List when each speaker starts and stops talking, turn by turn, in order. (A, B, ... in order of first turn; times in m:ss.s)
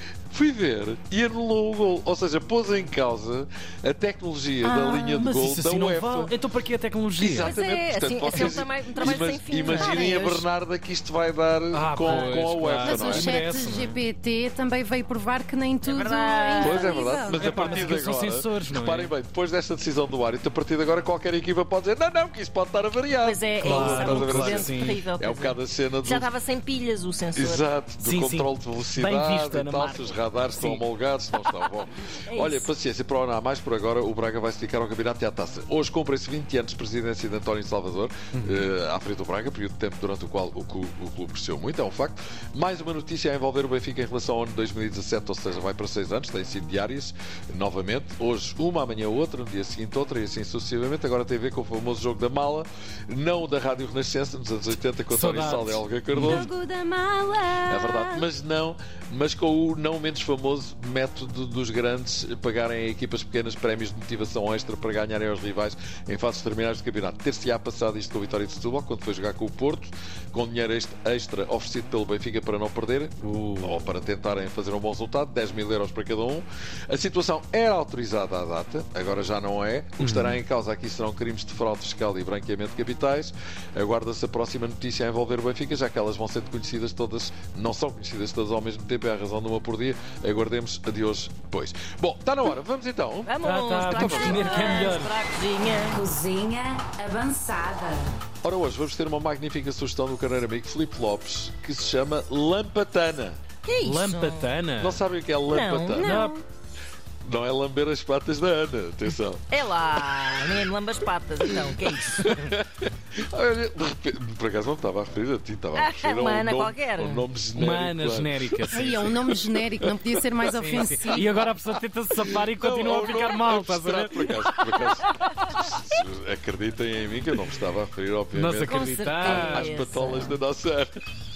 0:00.3-0:06.4 A
0:04.6-0:07.5 B
0:07.2-0:13.5 A
0:07.4-0:10.5 C
0:09.7-0:10.0 B
0:11.7-0:14.0 B
0:12.9-0:17.8 D
0:15.8-0:17.2 C
0:16.6-0:26.3 A
0:17.3-0:19.1 B
0:23.2-0:27.7 C
0:23.6-0:25.0 B
0:27.4-0:56.5 A
0:28.0-0:30.8 B
0:32.3-0:32.7 C
0:38.3-0:38.7 B
0:55.1-0:56.5 B
0:56.5-0:58.1 C
0:57.7-1:33.3 A
1:13.2-1:13.8 B
1:20.0-1:20.4 B
1:33.3-1:36.0 C
1:33.4-1:35.2 B
1:33.9-1:34.7 A
1:35.9-1:38.1 E
1:38.4-1:43.4 A
1:43.6-1:44.5 C
1:43.8-1:45.0 B
1:44.8-1:46.2 A
1:45.5-1:46.4 C
1:46.0-1:46.4 B
1:47.2-1:49.4 A
1:49.5-1:52.4 C
1:50.0-1:50.6 A
1:51.5-2:00.8 A
1:55.8-1:57.3 C
1:57.5-1:58.9 B
1:58.7-2:01.5 D
2:00.5-2:04.6 B
2:02.4-2:05.1 A
2:05.6-2:11.0 A
2:08.3-2:09.9 B
2:08.6-2:10.4 C